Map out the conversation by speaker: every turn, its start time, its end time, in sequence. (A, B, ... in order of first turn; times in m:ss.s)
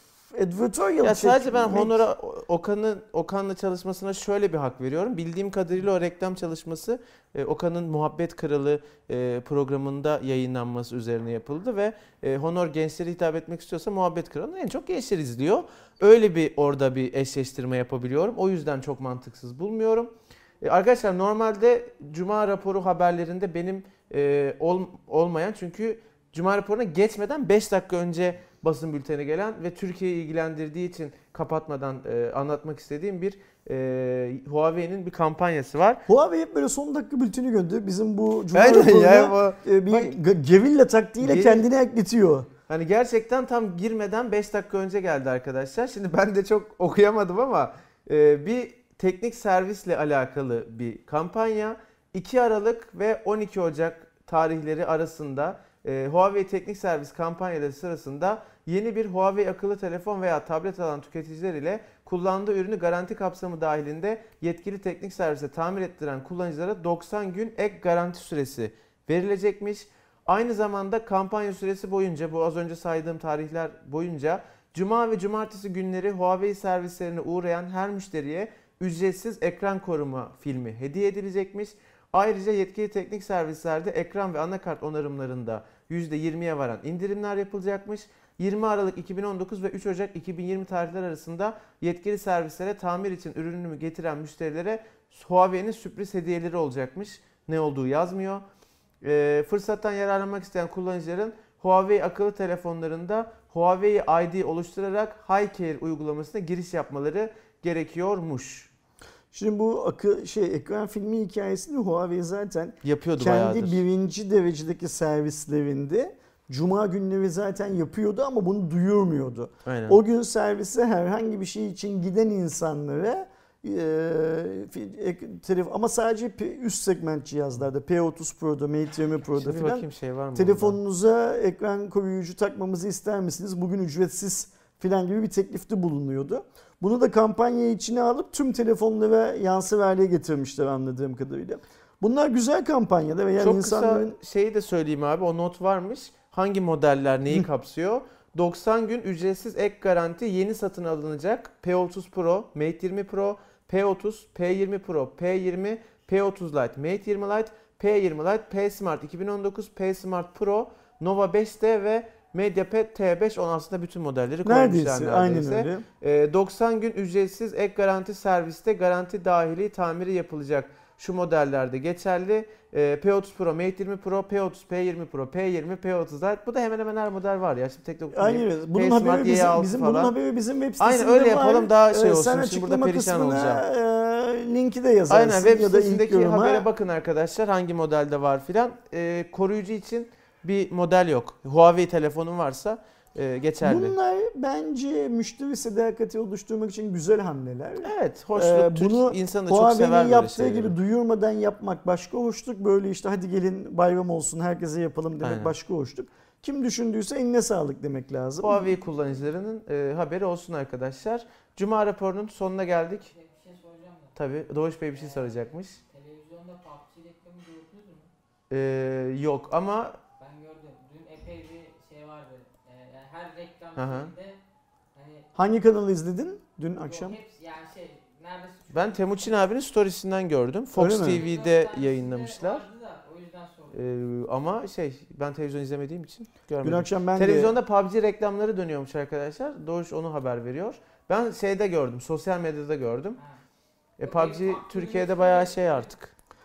0:00.3-0:02.0 A
0:01.0-0:36.0 B
0:36.1-0:42.5 A
0:38.5-0:40.1 B
0:41.2-0:41.6 B
0:42.7-1:38.4 B
1:39.0-1:48.7 B
1:49.3-2:24.2 A
1:52.8-1:53.8 B
1:59.6-2:00.0 B
2:09.4-2:10.8 B
2:23.4-3:00.1 B
2:44.4-2:45.8 A
2:58.1-3:06.6 A
3:00.8-3:03.6 B
3:05.1-3:13.9 B
3:13.6-3:28.7 A
3:17.8-3:20.7 B
3:25.2-3:25.5 B
3:28.4-3:33.1 B
3:32.8-3:34.2 C
3:34.1-3:35.8 B
3:34.9-3:38.1 C
3:38.5-3:40.0 B
3:40.2-3:44.4 C
3:43.8-3:44.1 B
3:44.9-3:45.3 C
3:45.3-3:47.2 A
3:46.8-3:49.1 C
3:48.7-3:52.7 B
3:50.8-3:51.2 A
3:50.9-3:54.0 C
3:53.7-4:03.2 B
3:56.6-3:57.6 A
4:04.0-4:06.1 B
4:04.0-4:05.9 C